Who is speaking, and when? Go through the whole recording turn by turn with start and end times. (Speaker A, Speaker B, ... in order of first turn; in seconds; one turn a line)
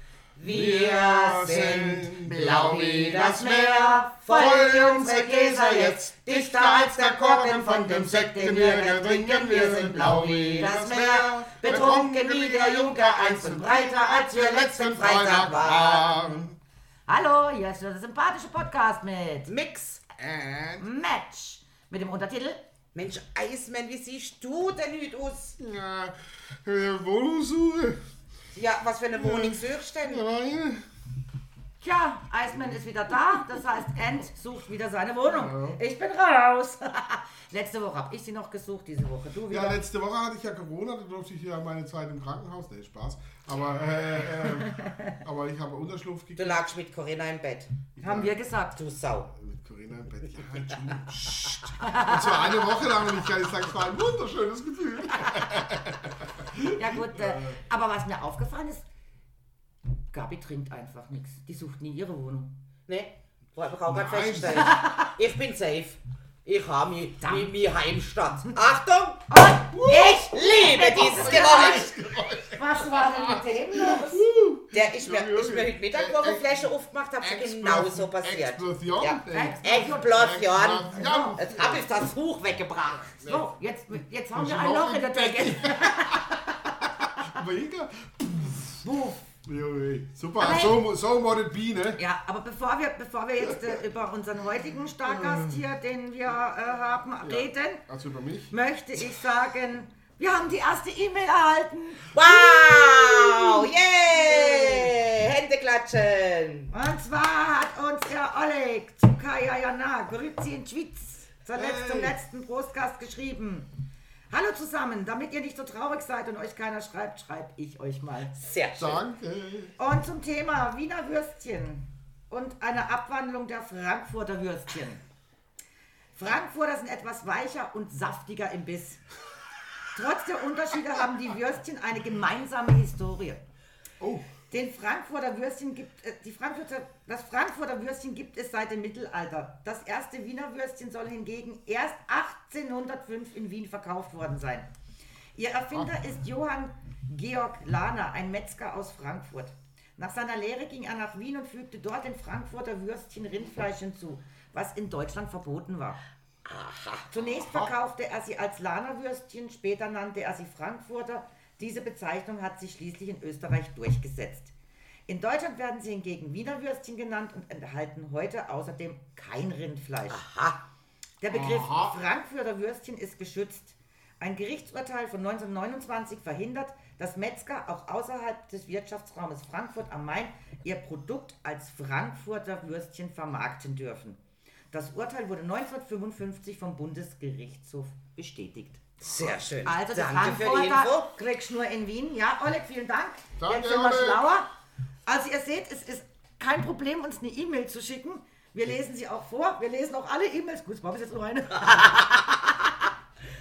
Speaker A: 0.3-16.3
Speaker B: 0.4-16.6
Speaker C: 3.0-6.0
Speaker C: 7.3-15.3
Speaker C: 17.1-19.5
Speaker A: 19.5-20.0
Speaker B: 20.2-20.9
Speaker C: 20.8-22.6
Speaker A: 22.9-25.6
Speaker B: 25.6-28.0
Speaker A: 28.5-30.2
Speaker B: 29.1-30.9
Speaker C: 31.8-39.8
Speaker B: 35.2-35.8
Speaker B: 39.5-46.6
Speaker A: 46.4-47.7
Speaker B: 47.9-48.4
Speaker C: 48.0-48.7
Speaker A: 48.7-49.3
Speaker B: 49.3-57.6
Speaker C: 51.8-52.6
Speaker C: 56.7-58.8
Speaker C: 60.1-62.5
Speaker A: 62.9-71.9
Speaker B: 63.9-64.8
Speaker C: 64.5-65.1
Speaker C: 69.3-71.8
Speaker B: 69.7-82.0
Speaker C: 72.5-74.2
Speaker A: 74.7-83.2
Speaker C: 79.3-80.3
Speaker C: 80.8-81.4
Speaker B: 83.1-83.5
Speaker C: 83.2-87.3
Speaker B: 84.3-88.9
Speaker C: 88.8-89.2
Speaker B: 89.4-92.0
Speaker C: 90.4-90.8
Speaker C: 92.0-97.8
Speaker B: 93.4-93.8
Speaker B: 95.0-95.6
Speaker B: 97.2-98.5
Speaker C: 98.5-102.1
Speaker A: 102.1-106.7
Speaker C: 103.0-103.4
Speaker C: 106.7-113.7
Speaker B: 111.5-112.1
Speaker C: 114.3-118.3
Speaker A: 118.3-119.0
Speaker B: 118.8-119.7
Speaker C: 119.8-125.0
Speaker C: 126.2-129.0
Speaker C: 129.9-133.4
Speaker B: 134.0-134.3
Speaker C: 134.5-144.7
Speaker C: 145.3-156.0
Speaker A: 156.4-157.3
Speaker C: 157.1-164.5
Speaker B: 157.5-157.7
Speaker C: 165.1-170.2
Speaker A: 170.1-170.6
Speaker C: 171.2-184.2
Speaker B: 171.3-172.0
Speaker C: 184.7-188.8
Speaker A: 189.0-191.1
Speaker C: 189.6-194.5
Speaker B: 193.4-194.3
Speaker C: 195.1-202.7